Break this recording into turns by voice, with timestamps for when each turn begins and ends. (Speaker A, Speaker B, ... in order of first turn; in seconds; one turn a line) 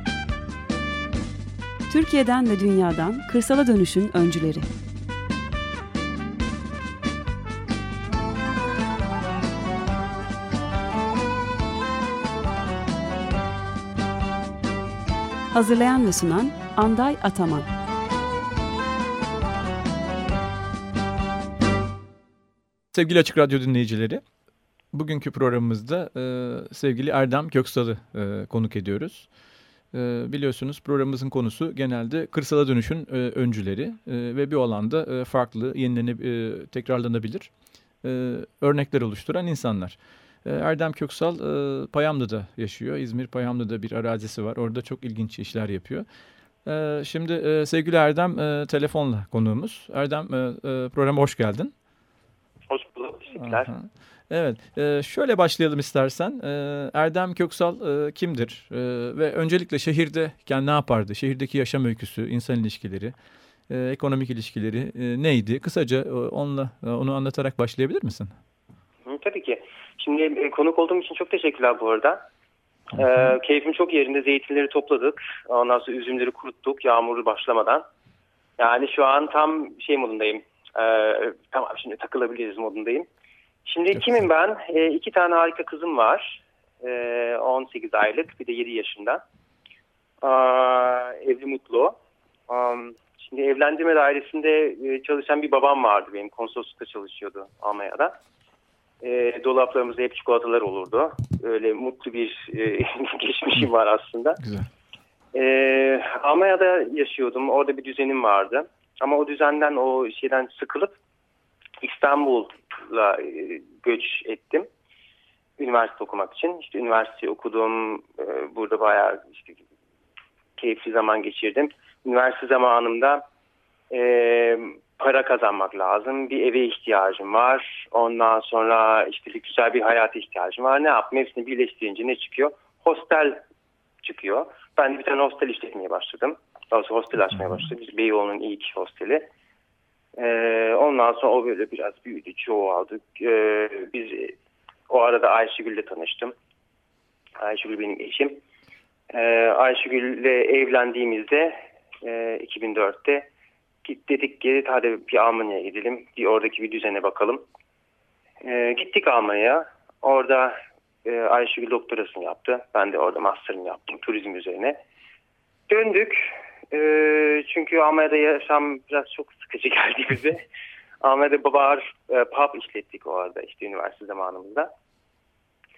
Speaker A: 1.9-4.7
Speaker A: 15.5-17.7
Speaker B: 22.9-24.2
Speaker B: 24.9-29.3
Speaker B: 29.9-37.5
Speaker B: 38.0-46.0
Speaker B: 46.6-51.7
Speaker C: 52.7-53.7
Speaker B: 53.4-63.1
Speaker B: 63.7-68.3
Speaker C: 69.0-72.2
Speaker C: 72.9-77.8
Speaker C: 78.6-83.1
Speaker C: 83.6-89.2
Speaker C: 90.2-92.0
Speaker C: 92.5-98.1
Speaker C: 99.0-104.4
Speaker B: 104.4-104.7
Speaker C: 105.3-110.9
Speaker C: 111.8-114.7
Speaker C: 115.6-119.6
Speaker C: 120.6-123.2
Speaker C: 123.9-133.4
Speaker C: 134.0-139.3
Speaker C: 140.2-144.3
Speaker C: 144.9-146.3
Speaker C: 147.4-148.4
Speaker C: 149.1-153.3
Speaker C: 153.8-157.4
Speaker C: 158.4-164.8
Speaker C: 165.7-170.4
Speaker C: 171.0-174.7